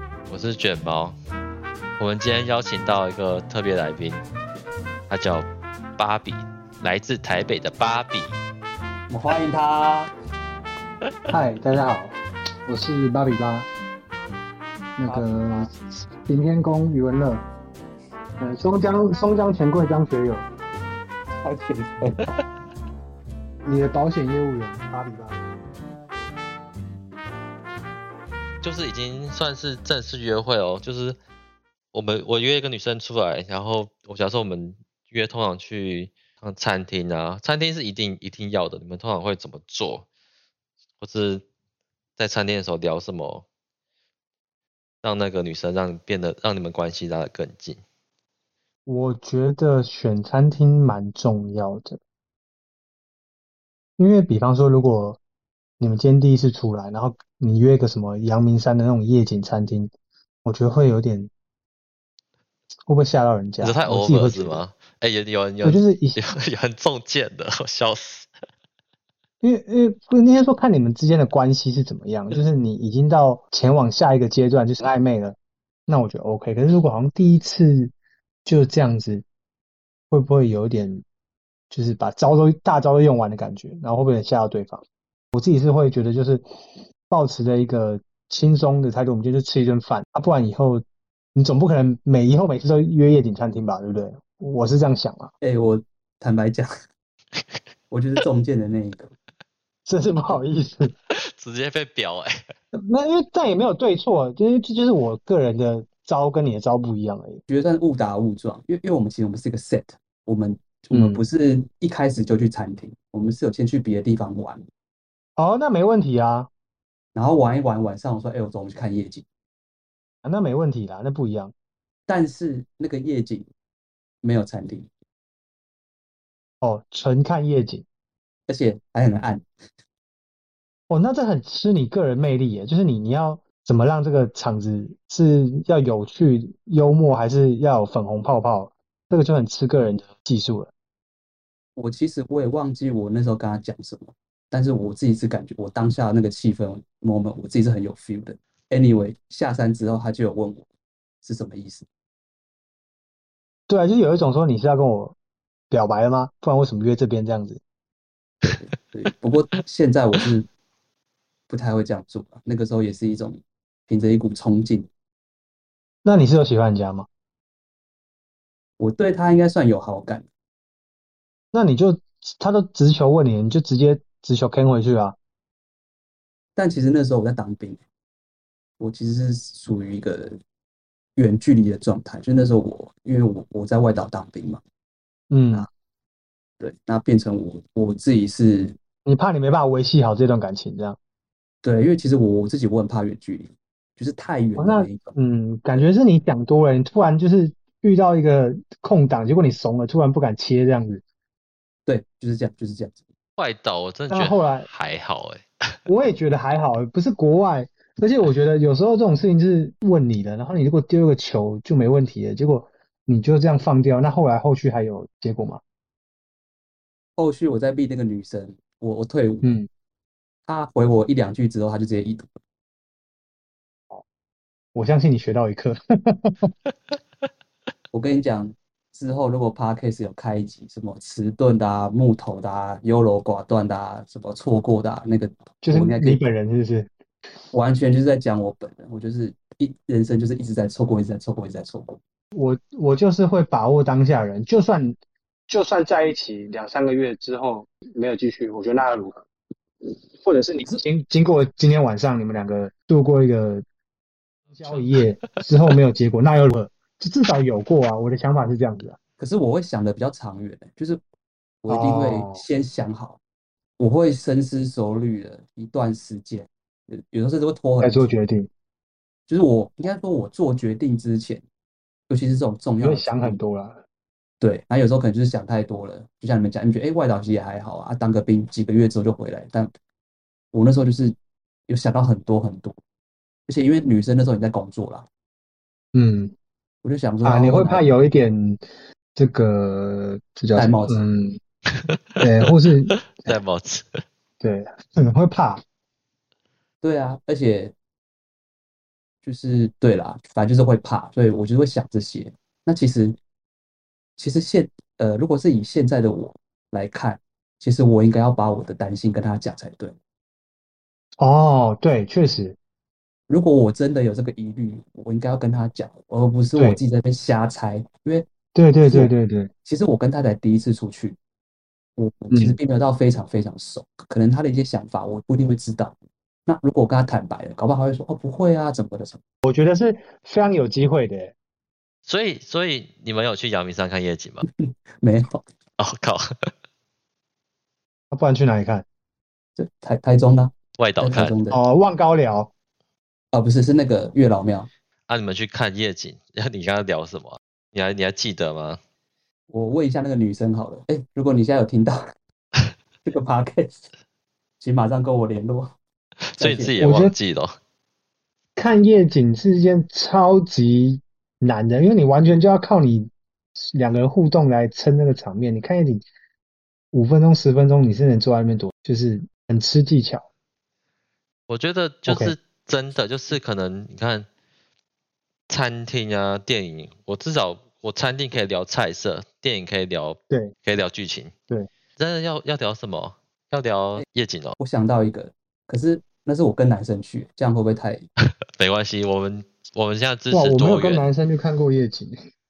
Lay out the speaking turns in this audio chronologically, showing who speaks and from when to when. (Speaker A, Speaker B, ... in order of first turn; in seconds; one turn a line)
Speaker A: 0.3-1.1
Speaker A: 2.0-4.2
Speaker A: 5.1-8.3
Speaker B: 9.1-10.1
Speaker C: 11.3-13.7
Speaker C: 15.0-17.4
Speaker B: 15.0-15.7
Speaker C: 18.4-20.5
Speaker B: 21.4-22.3
Speaker C: 23.6-25.5
Speaker A: 28.6-31.2
Speaker A: 31.9-40.0
Speaker A: 41.0-41.4
Speaker A: 42.2-43.4
Speaker A: 45.0-47.8
Speaker C: 48.9-52.0
Speaker C: 54.0-55.2
Speaker C: 55.8-59.9
Speaker C: 60.4-61.3
Speaker C: 62.9-64.6
Speaker A: 63.6-68.3
Speaker C: 65.6-66.2
Speaker C: 69.4-77.9
Speaker C: 78.5-79.2
Speaker C: 80.1-81.0
Speaker C: 81.7-86.4
Speaker C: 87.1-90.8
Speaker C: 91.3-95.3
Speaker B: 95.4-96.7
Speaker B: 97.9-99.1
Speaker C: 99.9-100.9
Speaker A: 101.4-102.4
Speaker C: 102.8-107.4
Speaker B: 107.5-114.6
Speaker C: 110.9-111.2
Speaker C: 115.4-116.5
Speaker B: 117.1-119.2
Speaker C: 120.2-121.5
Speaker B: 122.1-123.5
Speaker B: 124.2-124.9
Speaker C: 126.6-127.8
Speaker B: 128.5-129.4
Speaker C: 130.9-140.7
Speaker B: 141.8-150.7
Speaker B: 151.2-151.8
Speaker C: 153.7-155.1
Speaker C: 155.7-157.6
Speaker B: 158.4-160.5
Speaker B: 161.5-164.9
Speaker C: 166.0-167.1
Speaker B: 168.8-170.2
Speaker C: 171.5-175.2
Speaker B: 176.6-177.8
Speaker B: 178.8-180.4
Speaker B: 181.2-184.6
Speaker C: 185.3-185.7
Speaker B: 186.6-188.8
Speaker C: 189.1-191.0
Speaker B: 191.6-195.1
Speaker C: 194.6-201.0
Speaker B: 201.9-203.0
Speaker A: 203.4-205.7
Speaker C: 204.1-204.7
Speaker C: 205.9-215.6
Speaker B: 217.2-219.5
Speaker C: 219.4-219.7
Speaker B: 220.5-222.3
Speaker C: 224.7-226.5
Speaker B: 227.9-236.2
Speaker C: 235.6-236.9
Speaker B: 237.5-242.0
Speaker C: 242.3-245.0
Speaker C: 245.5-249.2
Speaker C: 249.9-253.6
Speaker C: 254.6-259.0
Speaker B: 259.2-261.0
Speaker B: 261.6-263.2
Speaker C: 261.7-262.4
Speaker B: 263.8-268.1
Speaker C: 267.8-268.5
Speaker B: 269.3-271.4
Speaker B: 272.1-273.4
Speaker C: 272.8-273.8
Speaker B: 274.4-279.7
Speaker B: 280.5-281.1
Speaker B: 281.7-282.7
Speaker B: 283.5-285.1
Speaker C: 285.9-286.3
Speaker B: 286.8-287.9
Speaker C: 287.2-288.6
Speaker C: 289.1-291.4
Speaker B: 290.6-291.0
Speaker A: 291.7-294.0
Speaker C: 292.2-293.3
Speaker C: 294.4-295.6
Speaker B: 296.8-297.7
Speaker B: 299.2-303.2
Speaker B: 304.2-309.9
Speaker C: 311.2-312.6
Speaker B: 313.3-318.3
Speaker C: 318.5-319.5
Speaker B: 318.8-319.1
Speaker B: 319.6-321.2
Speaker B: 322.0-325.9
Speaker C: 322.3-322.6
Speaker B: 326.5-329.2
Speaker C: 329.4-331.3
Speaker A: 332.1-334.4
Speaker B: 335.0-335.4
Speaker A: 335.8-336.5
Speaker C: 338.1-338.8
Speaker B: 339.6-341.6
Speaker A: 340.8-341.4
Speaker C: 341.5-342.5
Speaker B: 343.3-344.7
Speaker A: 345.1-348.8
Speaker B: 349.5-352.1
Speaker B: 353.0-353.9
Speaker B: 354.6-355.8
Speaker A: 356.4-357.5
Speaker B: 356.4-356.8
Speaker C: 356.8-357.1
Speaker C: 358.6-366.0
Speaker C: 366.9-370.2
Speaker A: 371.5-374.3
Speaker C: 372.1-372.3
Speaker A: 375.5-381.3
Speaker A: 382.0-384.6
Speaker B: 384.6-388.1
Speaker A: 388.6-391.1
Speaker C: 390.3-392.1